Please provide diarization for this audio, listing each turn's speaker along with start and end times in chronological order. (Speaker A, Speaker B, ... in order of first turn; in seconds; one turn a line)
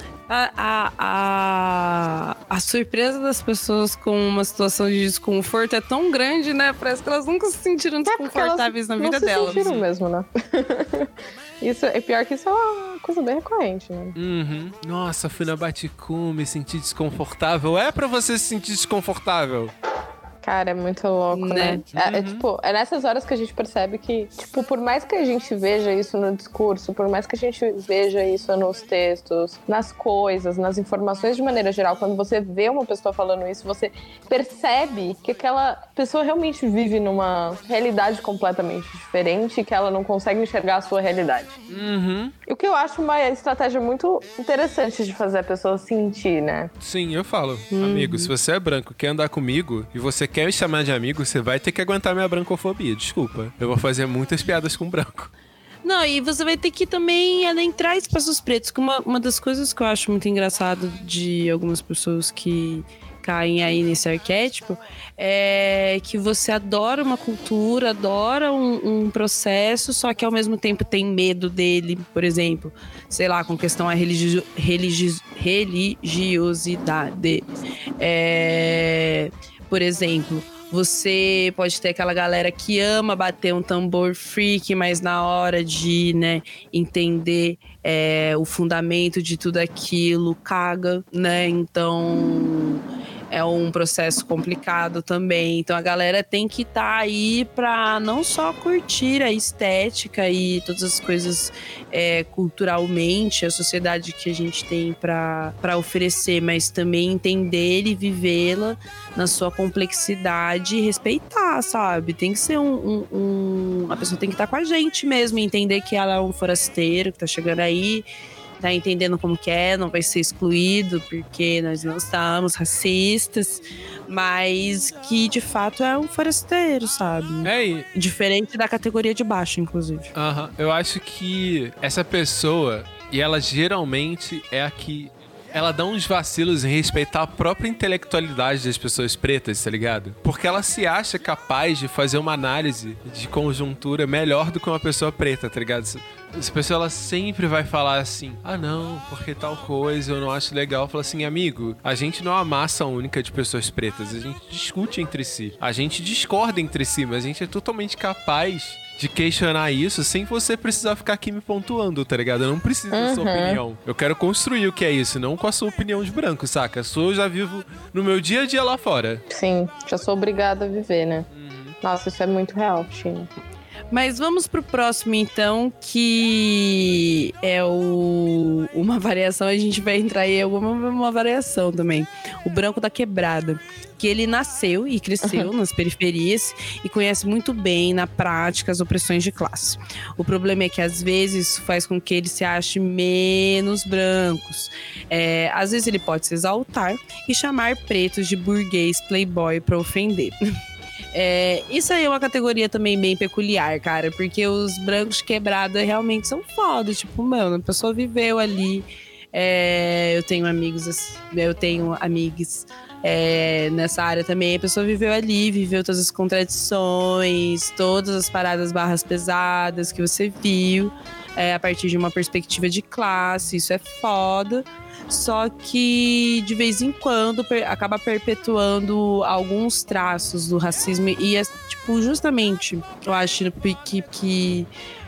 Speaker A: 0.3-9.7
Speaker B: 8.1-14.1
Speaker C: 9.5-9.9
Speaker C: 14.1-19.7
Speaker B: 20.4-41.5
Speaker A: 21.3-21.8
Speaker C: 21.9-22.4
Speaker C: 41.7-42.3
Speaker B: 42.5-46.7
Speaker C: 46.8-55.3
Speaker A: 47.7-48.3
Speaker A: 55.8-118.1
Speaker A: 118.6-130.1
Speaker C: 127.4-127.9
Speaker C: 130.1-169.2
Speaker B: 162.9-163.6
Speaker B: 169.3-171.3
Speaker C: 171.3-171.8
Speaker B: 171.8-173.3
Speaker A: 173.9-200.4
Speaker B: 185.2-185.5
Speaker A: 201.1-234.7